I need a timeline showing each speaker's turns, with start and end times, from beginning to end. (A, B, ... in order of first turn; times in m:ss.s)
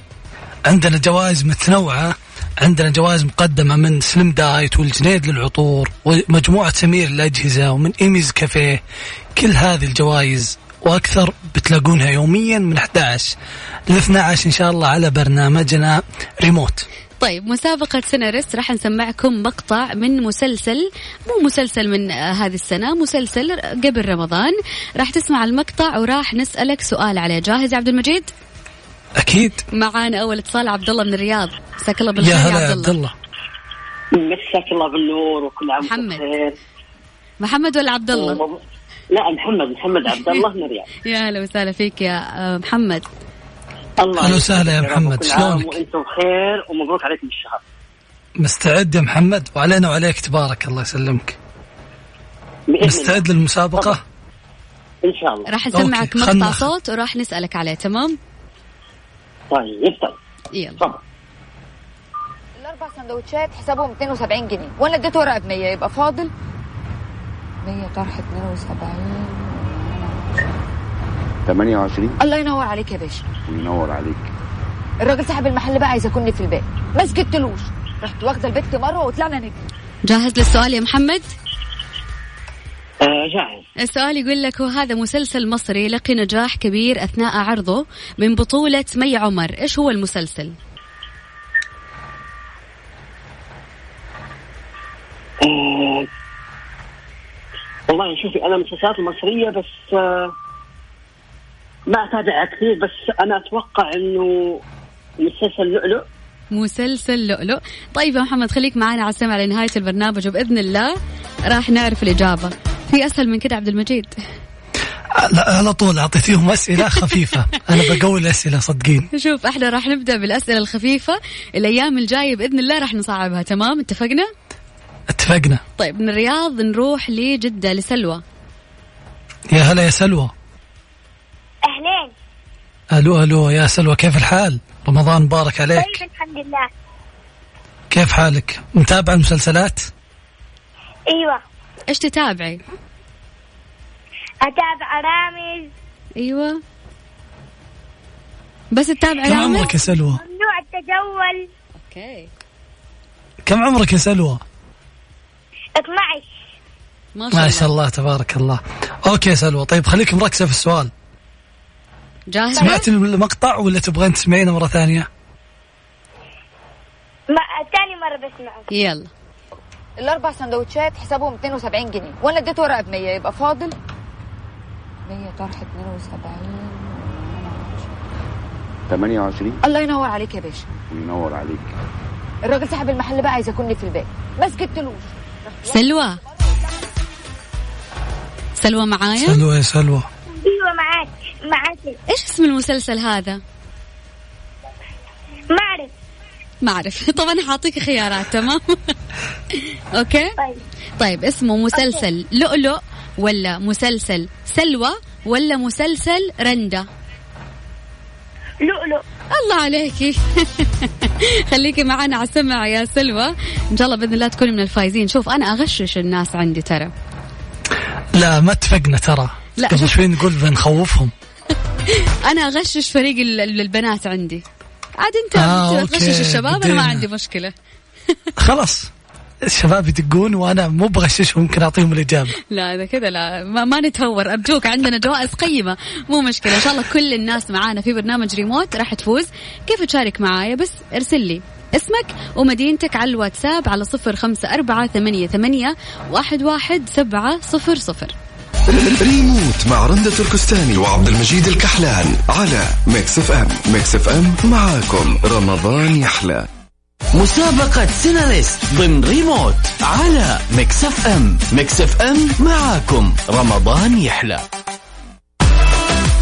0:00.7-0:08.8 A
0:09.4-0:13.3 A
0:13.9-0:16.8 A
0:17.2-0:28.3 B
0:29.2-0:29.6 A
0:29.7-0:33.0 B
0:32.2-0:33.1 A
0:34.2-0:36.6 C
0:35.8-0:36.3 B
0:37.4-0:38.4 B
0:38.1-0:38.6 C
0:39.1-0:40.9 C
0:41.0-0:43.0 B
0:44.0-0:47.6 C
0:44.2-0:45.7 A
0:48.4-0:51.4 A
0:52.7-0:54.0 C
0:52.8-0:54.0 A
0:55.0-0:55.5 C
0:55.5-0:58.2 B
0:55.7-0:56.7 A
0:59.5-1:00.2 C
1:00.5-1:00.8 B
1:02.6-1:06.3 D
1:07.6-1:10.6 D
1:11.5-1:12.2 E
1:12.2-1:13.4 D
1:13.4-1:14.3 E
1:15.0-1:19.6 D
1:20.1-1:21.2 B
1:23.0-1:23.6 C
1:23.8-1:30.6 B
1:35.4-1:36.0 C
1:37.9-1:40.3 C
1:41.9-1:44.6 C
1:45.2-1:46.0 C
1:46.5-1:54.1 B
1:55.2-1:59.1 A
1:59.1-2:04.3 B
2:05.1-2:05.6 A
2:05.8-2:08.2 B
2:09.5-2:10.3 A
2:11.7-2:12.1 F
2:12.9-2:16.0 A
2:15.8-2:16.7 F
2:17.9-2:19.9 A
2:21.1-2:21.4 F
2:21.9-2:22.6 B
2:24.4-2:25.7 F
2:26.2-2:26.6 B
2:28.7-2:29.7 B
2:29.3-2:30.2 A
2:30.2-2:31.4 F
2:31.8-2:32.3 B
2:33.5-2:34.4 A
2:35.8-2:36.3 F
2:37.2-2:37.7 B
2:37.3-2:40.9 A
2:42.3-2:42.8 B
2:42.6-2:45.1 A
2:47.3-2:48.7 F
2:48.7-2:49.1 B
2:50.0-2:53.8 D
2:55.1-2:57.9 D
2:58.9-2:59.6 E
2:59.6-3:00.8 D
3:00.8-3:01.7 E
3:02.4-3:05.8 D
3:05.7-3:06.2 B
3:08.6-3:09.4 B
3:09.2-3:10.1 A
3:10.4-3:12.0 F
3:12.1-3:13.4 B
3:15.5-3:15.9 F
3:16.6-3:18.9 B
3:19.9-3:20.3 B
3:21.0-3:26.9 B
3:28.6-3:29.0 F
3:29.3-3:36.9 B
3:38.2-3:41.1 A
3:39.6-3:40.0 B
3:41.9-3:44.4 B
3:45.0-3:47.5 B
3:45.4-3:47.0 A
3:48.4-3:48.9 A
3:49.5-3:52.4 A
3:52.5-4:08.1 B
4:09.0-4:16.5 G
4:17.2-4:24.4 H